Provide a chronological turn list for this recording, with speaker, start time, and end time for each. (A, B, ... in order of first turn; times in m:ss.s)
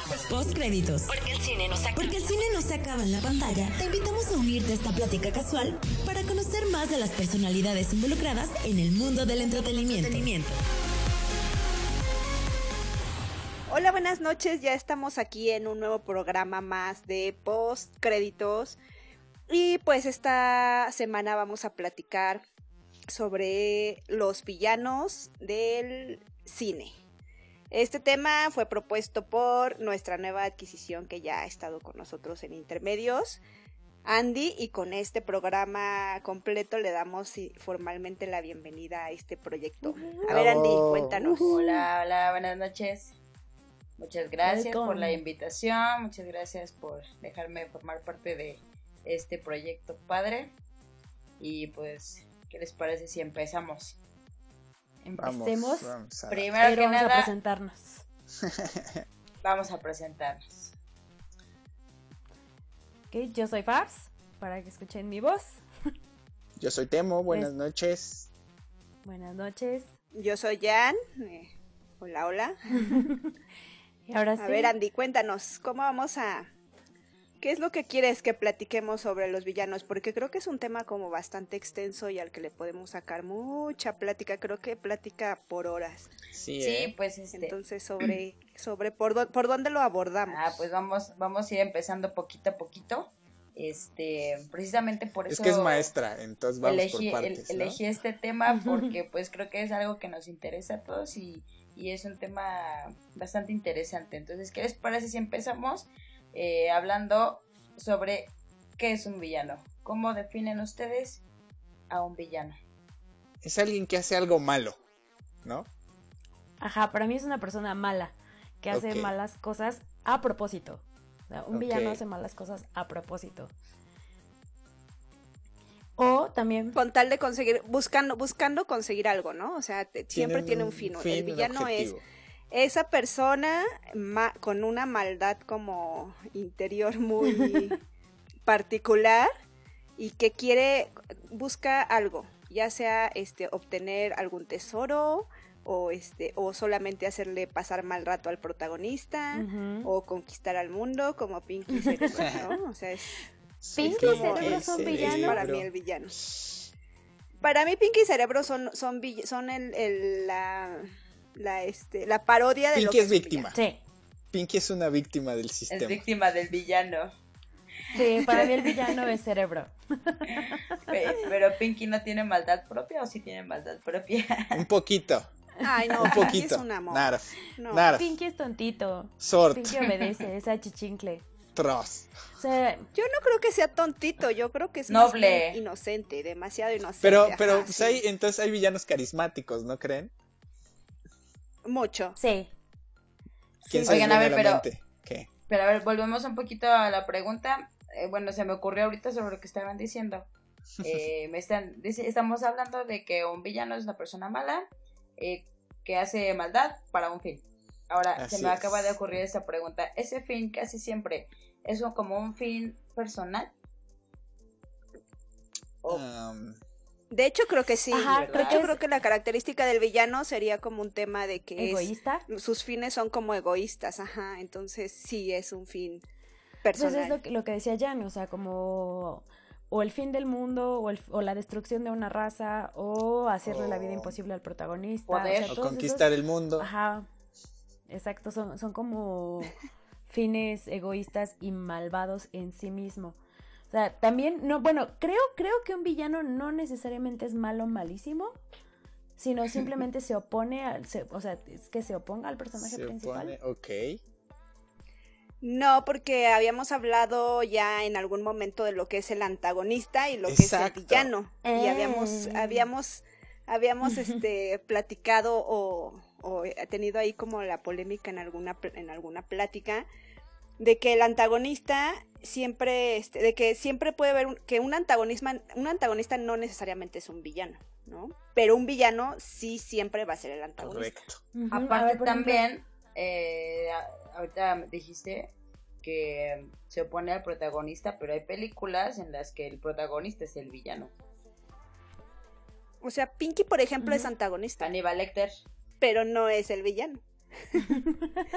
0:00.3-0:10.6 A
0:13.7-0:18.8 B
0:19.5-0:22.4 B
0:23.1-0:26.9 B
0:27.7-0:33.4 B
0:34.0-0:41.8 B
0:39.8-0:40.2 C
0:40.3-0:41.2 D
0:41.4-0:43.1 E
0:41.4-0:41.8 C
0:44.0-0:50.5 E
0:44.4-0:45.2 C
0:51.4-0:54.0 E
0:55.0-0:55.9 C
0:55.2-0:56.6 D
0:56.3-0:57.3 E
0:56.6-0:58.0 C
0:58.4-0:59.0 D
0:59.4-1:00.7 E
1:03.1-1:05.6 C
1:06.6-1:08.3 D
1:09.0-1:09.9 C
1:10.1-1:13.0 B
1:12.7-1:13.3 C
1:14.1-1:14.7 C
1:14.4-1:16.5 B
1:17.4-1:26.1 B
1:26.3-1:26.9 D
1:26.6-1:27.6 E
1:27.3-1:30.6 B
1:30.3-1:35.9 E
1:35.3-1:37.8 D
1:36.6-1:51.2 E
1:38.6-1:38.9 C
1:51.9-1:52.6 E
1:53.4-1:54.8 D
1:56.6-2:03.5 C
1:58.7-1:59.1 D
2:01.5-2:02.0 D
2:06.0-2:06.8 C
2:06.8-2:11.9 B
2:10.1-2:12.0 D
2:12.5-2:17.8 B
2:17.2-2:17.7 C
2:18.5-2:19.3 B
2:20.0-2:33.2 B
2:29.3-2:29.9 C
2:31.8-2:32.2 C
2:32.2-2:32.5 D
2:33.6-2:35.7 D
2:33.8-2:35.4 C
2:33.8-2:36.2 B
2:36.2-2:36.7 D
2:37.4-2:43.5 B
2:42.7-2:43.6 D
2:43.5-2:43.8 C
2:44.3-2:46.0 D
2:45.7-2:47.1 E
2:47.9-2:51.1 C
2:47.9-2:48.7 B
2:48.2-2:48.6 E
2:50.9-2:54.7 E
2:54.5-2:55.3 D
2:55.6-2:57.9 B
2:55.7-2:56.1 C
2:56.0-2:58.1 D
2:57.9-3:01.2 C
2:59.2-3:00.2 D
3:01.6-3:02.1 D
3:02.4-3:02.9 C
3:02.9-3:08.0 B
3:04.9-3:05.6 E
3:07.0-3:10.1 D
3:11.6-3:12.2 B
3:12.2-3:12.5 C
3:13.6-3:14.1 C
3:13.7-3:15.3 D
3:13.9-3:14.7 E
3:15.5-3:20.3 E
3:20.8-3:21.0 D
3:20.8-3:24.7 E
3:25.2-3:33.5 E
3:28.2-3:28.9 D
3:35.9-3:36.6 D
3:37.1-3:46.0 B
3:37.9-3:38.8 C
3:38.1-3:38.7 E
3:41.6-3:42.2 C
3:46.6-3:47.2 B
3:46.8-3:57.1 C
3:53.4-3:54.2 D
3:55.1-3:55.5 E
3:55.5-3:56.7 D
3:57.9-3:59.6 C
4:00.1-4:03.2 C
4:03.7-4:08.4 C
4:09.2-4:13.4 C
4:12.6-4:14.0 D
4:15.4-4:29.9 B
4:20.2-4:21.1 D
4:21.4-4:22.7 C
4:23.9-4:24.1 C
4:30.6-4:41.0 B
4:40.6-4:41.2 D
4:41.4-4:42.4 C
4:41.5-4:50.9 E
4:52.8-4:54.7 B
4:53.8-4:54.1 C
4:54.6-4:55.3 E
4:55.8-4:57.6 B
4:57.6-4:58.3 C